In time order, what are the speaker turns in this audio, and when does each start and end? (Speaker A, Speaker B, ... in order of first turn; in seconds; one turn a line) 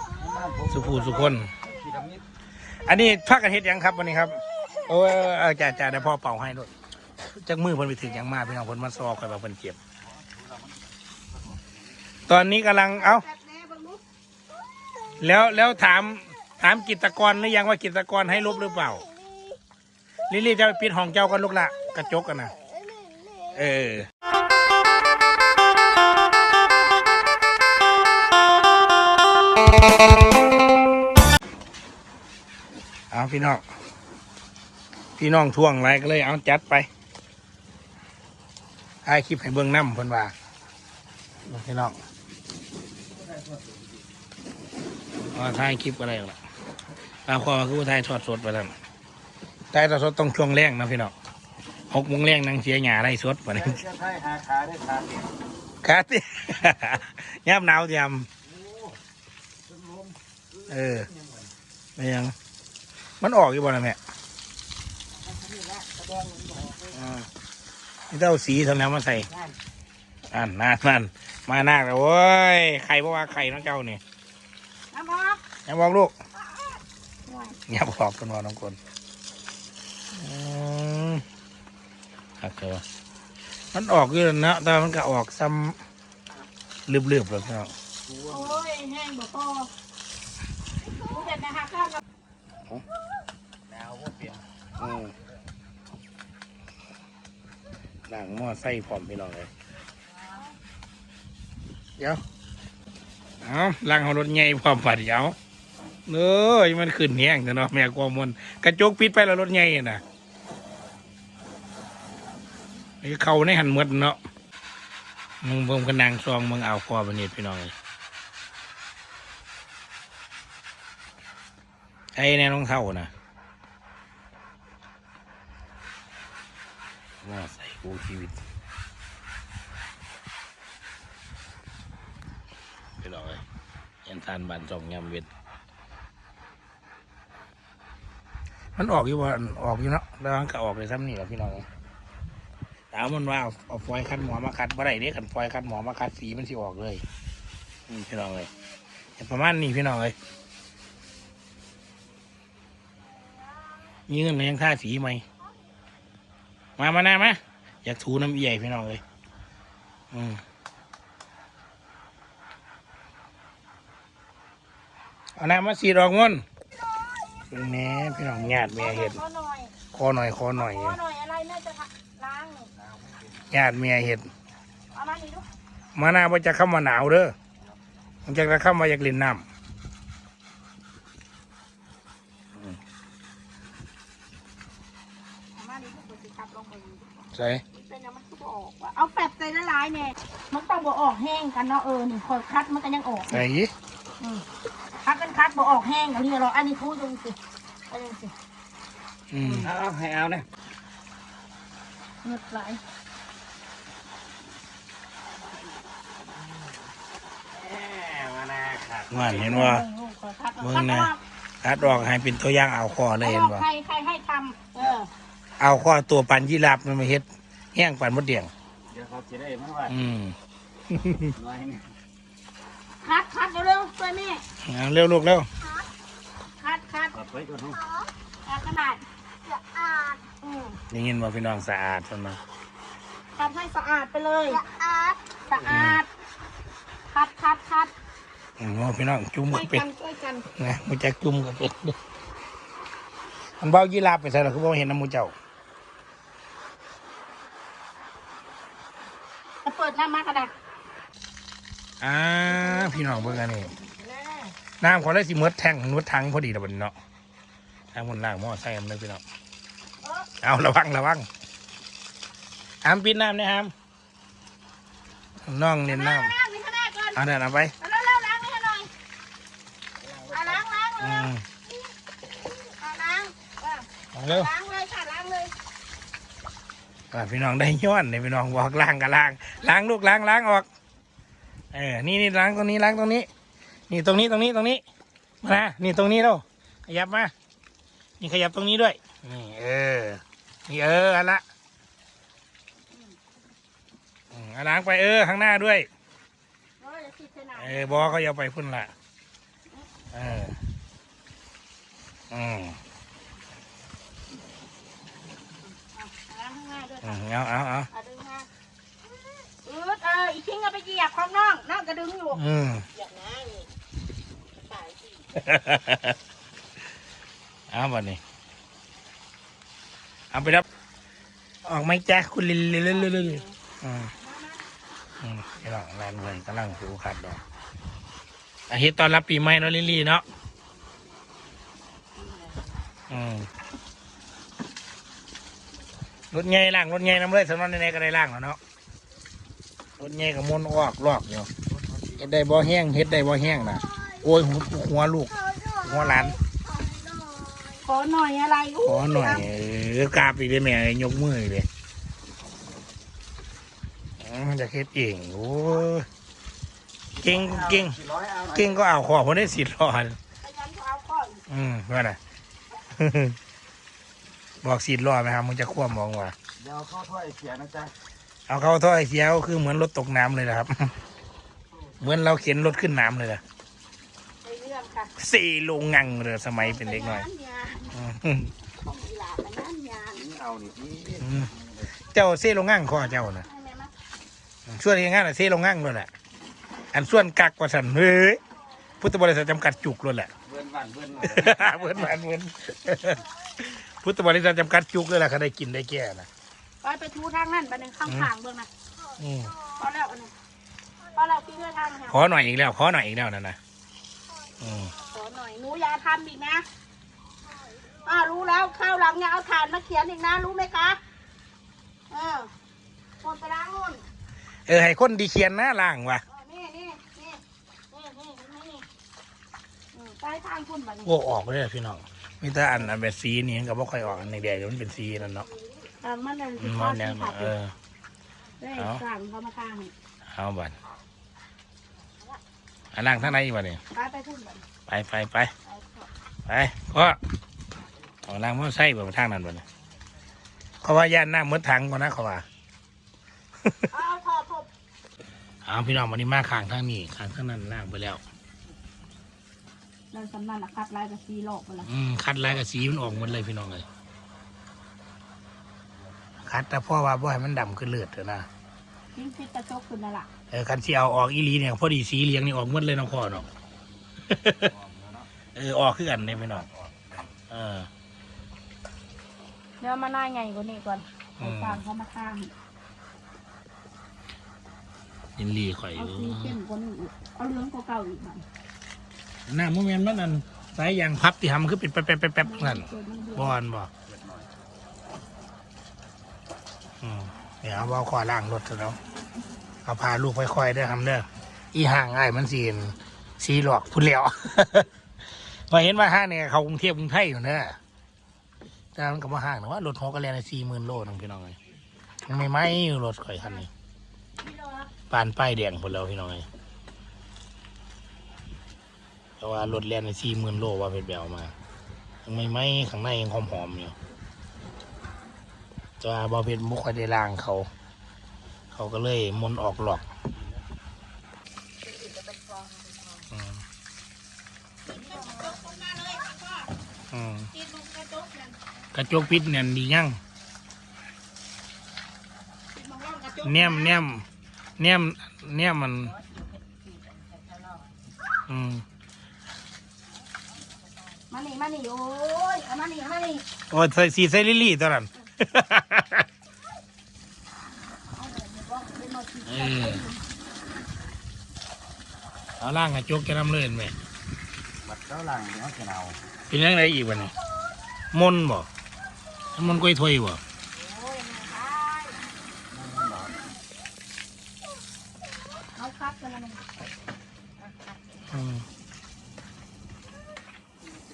Speaker A: 0.1-2.2
Speaker B: 0.7-1.5
Speaker B: 2.7-9.8
Speaker A: 10.2-10.7
Speaker B: 12.3-13.2
Speaker C: 12.9-14.0
Speaker B: 15.2-19.1
Speaker B: 20.3-22.5
Speaker B: 23.5-24.1
Speaker B: 33.1-33.6
Speaker B: 35.2-36.9
Speaker B: 39.0-40.3
Speaker B: 41.5-42.0
Speaker A: 43.2-43.8
Speaker B: 45.3-46.4
Speaker B: 47.2-48.7
Speaker B: 49.7-51.1
Speaker B: 51.9-53.8
Speaker A: 53.6-55.3
Speaker B: 55.8-58.3
Speaker A: 58.5-59.0
Speaker A: 59.7-61.5
Speaker B: 60.7-61.1
Speaker B: 62.0-62.3
Speaker B: 63.2-64.0
Speaker B: 66.9-67.3
Speaker B: 68.1-69.3
Speaker B: 70.3-74.0
Speaker C: 74.9-75.4
Speaker B: 75.6-76.1
Speaker C: 77.3-77.5
Speaker B: 77.7-78.8
Speaker B: 80.1-81.2
Speaker B: 82.4-82.8
Speaker B: 83.7-85.8
Speaker B: 86.9-87.7
Speaker A: 88.1-88.5
Speaker C: 88.2-89.7
Speaker C: 90.9-92.0
Speaker A: 93.7-94.4
Speaker B: 94.8-95.1
Speaker B: 98.1-99.5
Speaker C: 100.2-100.5
Speaker B: 103.4-105.3
Speaker B: 106.1-110.0
Speaker B: 113.0-114.2
Speaker B: 115.4-117.7
Speaker B: 122.2-123.1
Speaker B: 127.2-128.4
Speaker B: 133.0-133.4
Speaker B: 134.0-135.3
Speaker B: 138.8-141.7
Speaker B: 142.9-147.0
Speaker B: 147.9-148.5
Speaker B: 149.2-150.2
Speaker B: 154.1-155.2
Speaker B: 156.8-159.0
Speaker B: 160.1-160.4
Speaker B: 165.3-166.4
Speaker B: 167.5-169.2
Speaker C: 168.7-169.7
Speaker B: 169.9-171.0
Speaker C: 170.5-172.7
Speaker A: 172.8-173.3
Speaker B: 173.5-174.3
Speaker C: 174.9-175.4
Speaker B: 175.9-177.3
Speaker B: 178.2-179.4
Speaker C: 185.6-187.1
Speaker B: 187.3-187.6
Speaker C: 187.7-193.4
Speaker B: 193.3-193.7
Speaker C: 194.2-194.4
Speaker C: 195.0-197.4
Speaker C: 197.9-198.3
Speaker B: 199.3-199.7
Speaker A: 199.6-200.5
Speaker C: 202.2-202.8
Speaker A: 207.5-209.6
Speaker B: 209.1-209.8
Speaker C: 209.2-211.2
Speaker B: 210.6-213.6
Speaker C: 213.2-215.1
Speaker B: 215.6-218.5
Speaker A: 218.9-219.9
Speaker B: 219.9-220.3
Speaker B: 220.9-221.3
Speaker A: 221.3-221.9
Speaker C: 223.0-224.4
Speaker B: 224.6-225.5
Speaker C: 226.6-227.2
Speaker A: 227.1-227.8
Speaker C: 228.4-230.8
Speaker B: 230.9-232.4
Speaker C: 233.4-236.1
Speaker B: 235.6-236.0
Speaker C: 237.1-237.9
Speaker B: 238.6-239.8
Speaker C: 239.5-240.5
Speaker B: 240.5-242.0
Speaker B: 243.6-245.3
Speaker C: 249.6-250.5
Speaker B: 252.0-253.7
Speaker C: 252.5-254.5
Speaker B: 254.8-256.9
Speaker B: 257.9-259.2
Speaker C: 260.0-260.3
Speaker B: 260.4-261.3
Speaker B: 262.8-263.7
Speaker B: 265.4-266.3
Speaker C: 265.9-267.2
Speaker B: 267.1-267.7
Speaker C: 267.8-268.9
Speaker C: 270.3-275.5
Speaker B: 271.0-271.4
Speaker B: 274.1-274.5
Speaker B: 277.1-280.7
Speaker B: 281.7-283.3
Speaker B: 283.9-284.8
Speaker B: 285.4-287.3
Speaker B: 288.2-291.4
Speaker C: 292.9-293.2
Speaker B: 294.3-295.9
Speaker C: 296.8-298.1
Speaker B: 297.6-298.9
Speaker B: 300.1-300.6
Speaker B: 302.3-302.8
Speaker C: 305.8-307.2
Speaker B: 307.0-307.9
Speaker C: 307.9-308.5
Speaker C: 309.5-312.4
Speaker B: 312.3-312.9
Speaker C: 312.9-313.7
Speaker C: 314.6-315.2
Speaker B: 315.3-316.2
Speaker B: 317.7-318.2
Speaker B: 320.3-320.6
Speaker B: 321.6-324.1
Speaker C: 322.9-323.5
Speaker C: 324.2-324.6
Speaker B: 325.2-327.4
Speaker B: 328.7-330.2
Speaker C: 332.2-332.7
Speaker B: 333.1-333.5
Speaker B: 336.3-338.6
Speaker B: 340.0-341.5
Speaker B: 342.1-346.4
Speaker C: 345.5-346.3
Speaker C: 347.7-349.4
Speaker B: 348.8-351.7
Speaker B: 354.2-356.1
Speaker B: 357.2-358.0
Speaker A: 357.2-358.8
Speaker B: 358.5-360.2
Speaker C: 360.4-361.4
Speaker B: 361.5-362.2
Speaker B: 362.9-363.4
Speaker B: 364.6-366.3
Speaker A: 366.6-367.9
Speaker B: 368.5-370.9
Speaker B: 372.0-373.4
Speaker C: 374.4-375.1
Speaker B: 375.2-377.2
Speaker C: 376.6-377.9
Speaker B: 377.9-378.5
Speaker C: 378.7-380.3
Speaker A: 380.2-381.5
Speaker B: 381.2-381.5
Speaker B: 382.1-383.4
Speaker C: 383.0-383.9
Speaker B: 384.7-386.1
Speaker B: 386.9-388.4
Speaker B: 389.0-390.3
Speaker A: 390.4-392.1
Speaker B: 391.2-396.3
Speaker C: 396.8-398.7
Speaker B: 399.2-399.6
Speaker C: 399.7-400.3
Speaker C: 401.1-402.2
Speaker B: 402.1-403.6
Speaker B: 404.6-404.9
Speaker C: 405.0-406.6
Speaker C: 408.0-411.0
Speaker C: 412.1-412.5
Speaker C: 413.2-414.0
Speaker B: 414.7-416.2
Speaker C: 416.2-418.9
Speaker C: 419.9-421.1
Speaker B: 421.0-425.5
Speaker C: 425.9-427.6
Speaker B: 426.6-427.7
Speaker C: 428.6-429.9
Speaker B: 428.7-429.0
Speaker B: 430.3-430.7
Speaker B: 432.9-433.8
Speaker C: 433.9-434.6
Speaker B: 434.9-435.5
Speaker C: 435.6-436.1
Speaker B: 436.4-437.2
Speaker B: 438.2-439.6
Speaker B: 440.8-442.4
Speaker C: 443.9-444.7
Speaker B: 445.6-448.2
Speaker C: 450.1-451.9
Speaker B: 451.8-453.8
Speaker B: 456.4-458.5
Speaker C: 459.1-460.3
Speaker B: 460.5-463.5
Speaker B: 464.3-464.7
Speaker A: 464.6-465.3
Speaker B: 465.5-466.7
Speaker A: 466.4-467.3
Speaker B: 467.5-467.9
Speaker C: 469.8-472.5
Speaker B: 471.4-471.8
Speaker B: 475.4-476.6
Speaker C: 475.9-478.4
Speaker B: 479.5-483.9
Speaker C: 482.4-483.6
Speaker A: 484.1-484.5
Speaker B: 487.0-489.0
Speaker B: 489.8-494.9
Speaker B: 495.4-497.8
Speaker B: 498.9-501.6
Speaker B: 502.2-503.7
Speaker C: 504.4-504.9
Speaker B: 505.1-506.5
Speaker B: 509.4-511.5
Speaker B: 512.2-513.9
Speaker B: 516.0-517.7
Speaker B: 518.7-520.1
Speaker B: 523.3-523.6
Speaker C: 524.9-526.7
Speaker B: 527.1-527.5
Speaker C: 527.5-528.6
Speaker B: 528.9-530.2
Speaker C: 532.7-534.0
Speaker B: 533.4-534.2
Speaker B: 534.8-536.1
Speaker C: 537.3-537.8
Speaker B: 538.5-538.8
Speaker C: 541.3-543.5
Speaker B: 543.7-546.2
Speaker C: 548.0-550.2
Speaker B: 549.5-550.0
Speaker B: 552.6-553.9
Speaker A: 554.8-556.2
Speaker B: 556.5-557.3
Speaker B: 558.1-558.7
Speaker B: 559.5-560.4
Speaker C: 560.7-562.2
Speaker A: 562.7-563.4
Speaker C: 565.8-566.6
Speaker B: 568.3-568.6